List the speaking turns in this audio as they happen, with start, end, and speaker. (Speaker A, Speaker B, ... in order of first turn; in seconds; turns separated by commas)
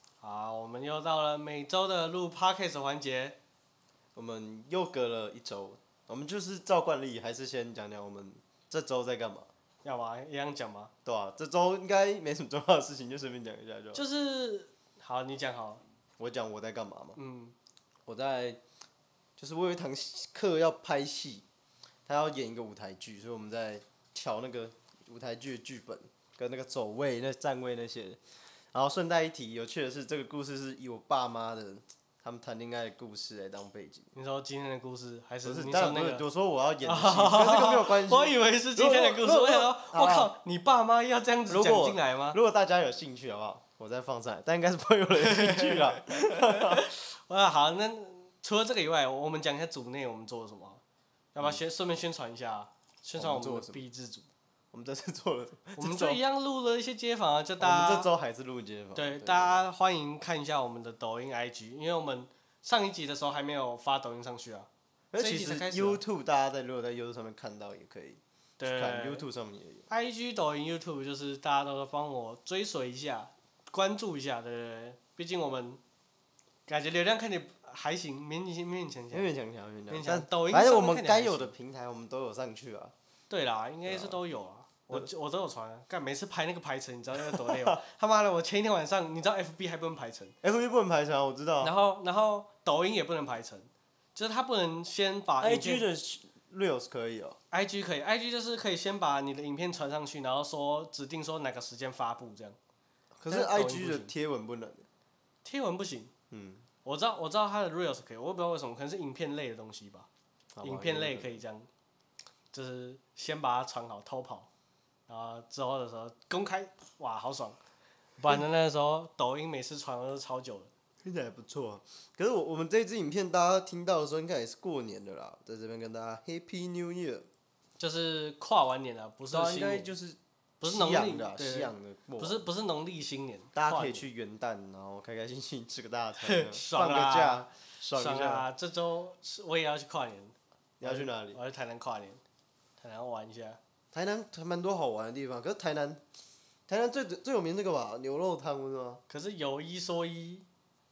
Speaker A: 0.2-3.4, Speaker B: 4.1-9.5, Speaker A: 9.8-10.9, Speaker B: 11.0-14.0, Speaker A: 13.9-15.8, Speaker B: 16.2-17.2, Speaker A: 17.1-17.5, Speaker B: 18.1-18.6, Speaker B: 19.4-21.4, Speaker B: 22.1-28.2, Speaker B: 28.7-34.1, Speaker A: 34.1-36.2, Speaker B: 35.4-40.3, Speaker A: 36.8-42.4, Speaker B: 41.5-46.9, Speaker A: 45.1-50.8, Speaker A: 51.3-54.3, Speaker B: 53.2-53.8, Speaker B: 54.7-56.2, Speaker A: 55.8-58.1, Speaker B: 57.6-59.6, Speaker A: 58.9-66.0, Speaker B: 65.1-69.9, Speaker A: 68.6-69.2, Speaker A: 69.9-75.8, Speaker A: 76.7-79.3, Speaker B: 79.1-82.9, Speaker A: 79.9-81.5, Speaker A: 83.3-90.3, Speaker B: 83.8-84.2, Speaker B: 87.2-87.8, Speaker B: 90.4-91.7, Speaker A: 91.6-95.8, Speaker B: 95.4-97.4, Speaker A: 97.5-102.6, Speaker B: 103.2-104.8, Speaker A: 103.3-104.1, Speaker A: 105.4-106.1, Speaker B: 106.3-106.7, Speaker A: 106.8-110.1, Speaker B: 110.5-111.4, Speaker A: 110.6-111.7, Speaker A: 112.5-114.5, Speaker A: 115.1-117.6, Speaker A: 118.2-120.7, Speaker B: 121.0-127.3, Speaker A: 127.8-129.9, Speaker B: 129.3-132.4, Speaker A: 130.6-134.0, Speaker B: 133.5-138.4, Speaker A: 136.2-142.2, Speaker B: 140.8-141.4, Speaker A: 142.8-143.6, Speaker B: 143.9-146.0, Speaker B: 146.7-149.0, Speaker A: 149.1-150.4